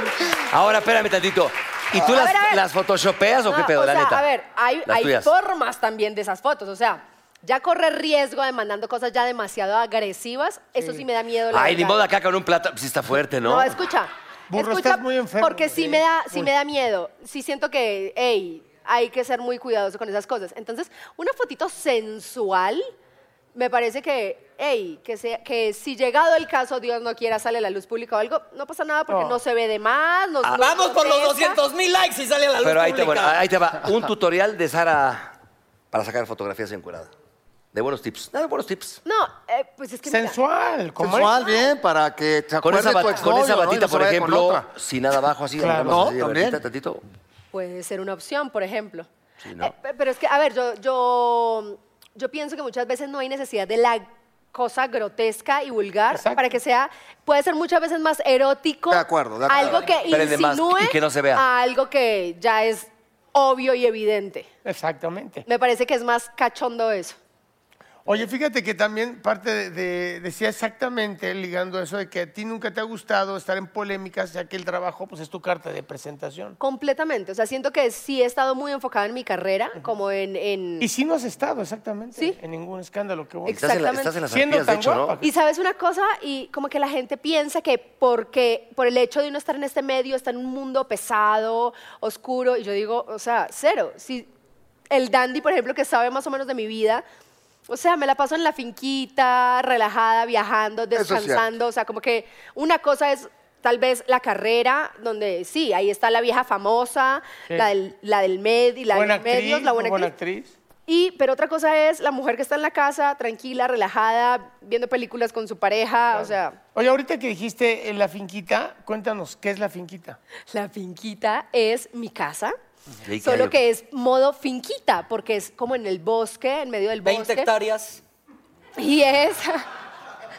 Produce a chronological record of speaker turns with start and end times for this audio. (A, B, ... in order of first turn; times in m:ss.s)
0:00.5-0:04.2 A
0:01.9-0:02.6 B
0:03.5-0:12.0 B
0:04.9-0:05.3 A
0:11.5-0:13.7 A
0:13.4-0:22.9 B
0:14.5-0:16.5 C
0:23.5-0:31.6 B
0:29.1-0:29.4 C
0:30.6-0:33.4 D
0:32.6-0:35.3 A
0:35.9-0:37.1 A
0:37.7-0:39.0 A
0:39.0-0:40.4 B
0:40.1-0:41.4 C
0:41.0-0:44.7 E
0:42.6-0:47.0 A
0:45.6-0:46.1 C
0:45.8-0:46.6 E
0:47.5-0:49.1 B
0:49.4-0:49.7 A
0:49.6-1:04.5 B
0:56.1-0:56.4 C
0:58.9-0:59.9 E
1:00.1-1:01.4 A
1:04.6-1:05.4 C
1:05.4-1:07.2 B
1:08.0-1:16.6 C
1:16.6-1:20.9 B
1:20.8-1:23.6 C
1:23.4-1:24.1 B
1:23.5-1:25.2 A
1:24.3-1:25.3 C
1:25.2-1:34.3 B
1:34.9-1:37.0 B
1:37.7-1:50.1 B
1:40.9-1:41.4 E
1:48.9-1:50.5 C
1:50.9-1:56.6 B
1:56.7-2:00.2 C
2:00.5-2:02.5 B
2:03.0-2:03.5 A
2:03.2-2:07.5 B
2:07.0-2:08.0 D
2:08.8-2:09.6 B